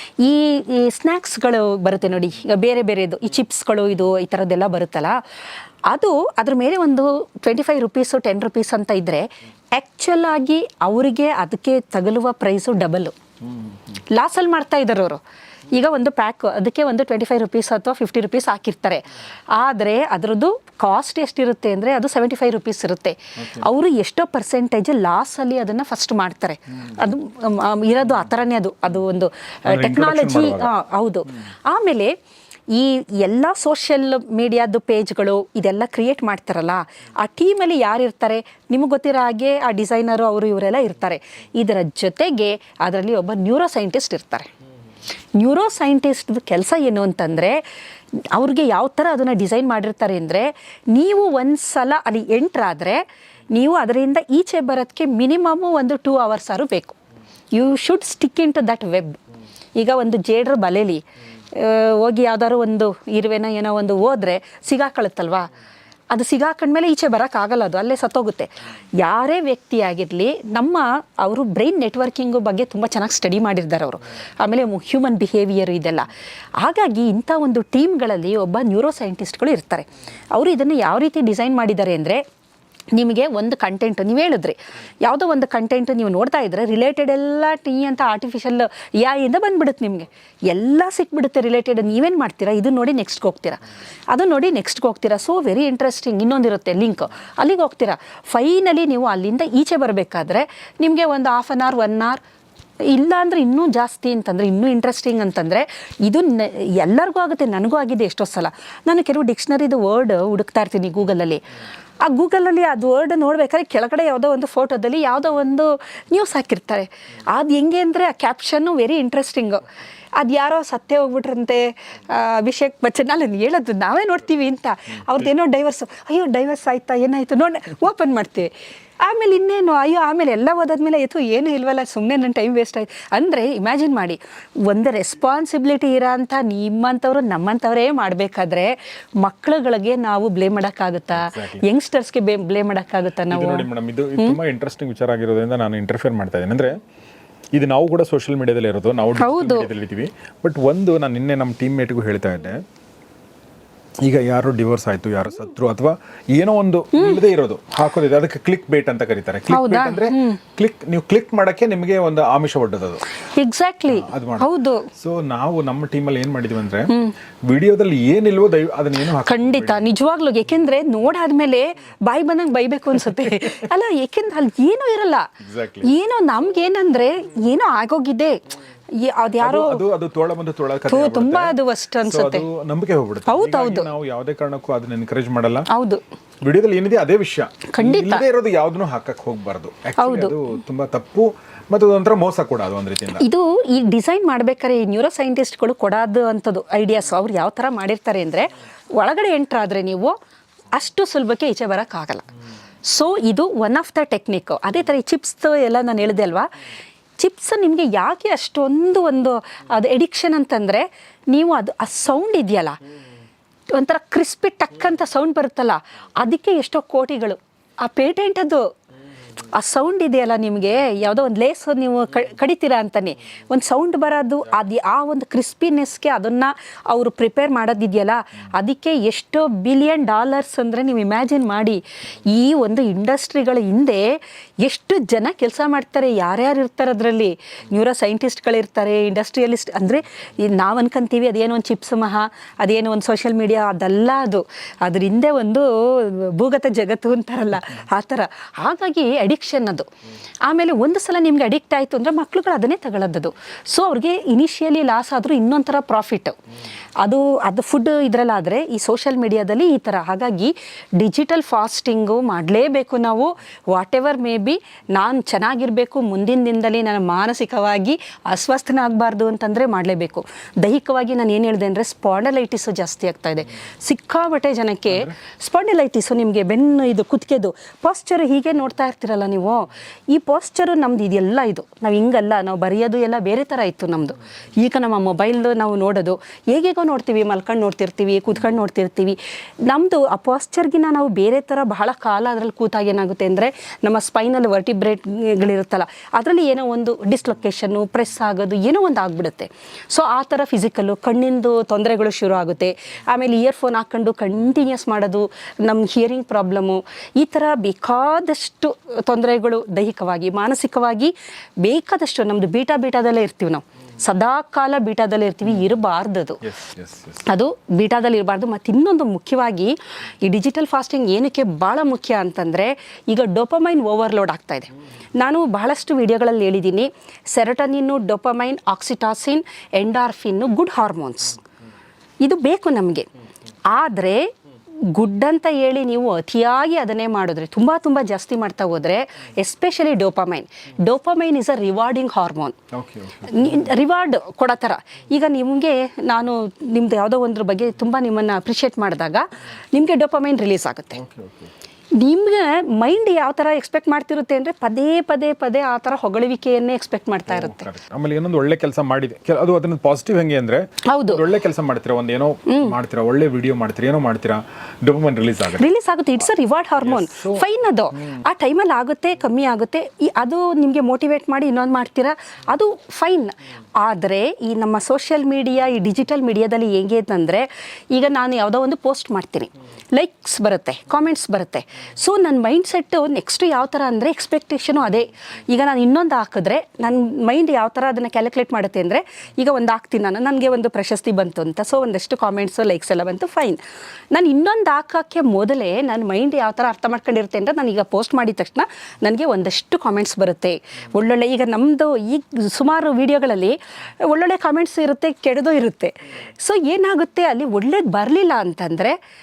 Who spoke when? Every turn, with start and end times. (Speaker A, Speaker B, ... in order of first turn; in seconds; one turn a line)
Speaker A: 0.2-5.2
Speaker A: 5.9-13.2
Speaker A: 14.1-32.1
Speaker B: 23.4-23.6
Speaker B: 29.7-30.7
Speaker A: 32.7-44.5
Speaker A: 45.4-47.6
Speaker A: 48.2-57.0
Speaker A: 57.5-59.2
Speaker A: 59.8-65.5
Speaker A: 66.1-82.2
Speaker A: 82.9-102.2
Speaker A: 102.8-111.4
Speaker A: 112.0-119.6
Speaker A: 120.2-144.4
Speaker B: 141.2-141.6
Speaker B: 143.3-146.8
Speaker B: 147.5-152.6
Speaker A: 149.2-149.7
Speaker B: 154.0-163.0
Speaker A: 156.9-157.2
Speaker A: 159.5-160.4
Speaker A: 163.2-164.9
Speaker B: 163.9-169.9
Speaker A: 166.9-167.1
Speaker A: 169.2-175.3
Speaker B: 175.4-175.9
Speaker A: 175.8-179.8
Speaker B: 179.4-185.7
Speaker A: 180.9-182.4
Speaker A: 183.3-183.9
Speaker A: 185.7-186.0
Speaker B: 186.4-193.2
Speaker A: 187.7-188.2
Speaker A: 190.0-190.4
Speaker A: 193.2-200.2
Speaker A: 200.7-202.3
Speaker A: 202.8-206.5
Speaker A: 207.2-212.8
Speaker A: 213.7-218.7
Speaker A: 219.4-249.9
Speaker A: 250.4-256.4
Speaker A: 257.0-316.4
Speaker B: 274.9-275.1
Speaker B: 316.4-317.2
Speaker A: 317.2-331.4
Speaker A: 332.2-333.1
Speaker A: 333.7-334.3
Speaker A: 334.9-342.6
Speaker B: 342.7-343.7
Speaker A: 343.2-351.0
Speaker B: 350.9-351.5
Speaker A: 351.9-357.7
Speaker B: 357.3-365.7
Speaker A: 360.9-361.2
Speaker A: 362.5-362.7
Speaker A: 365.6-409.0
Speaker B: 366.8-368.2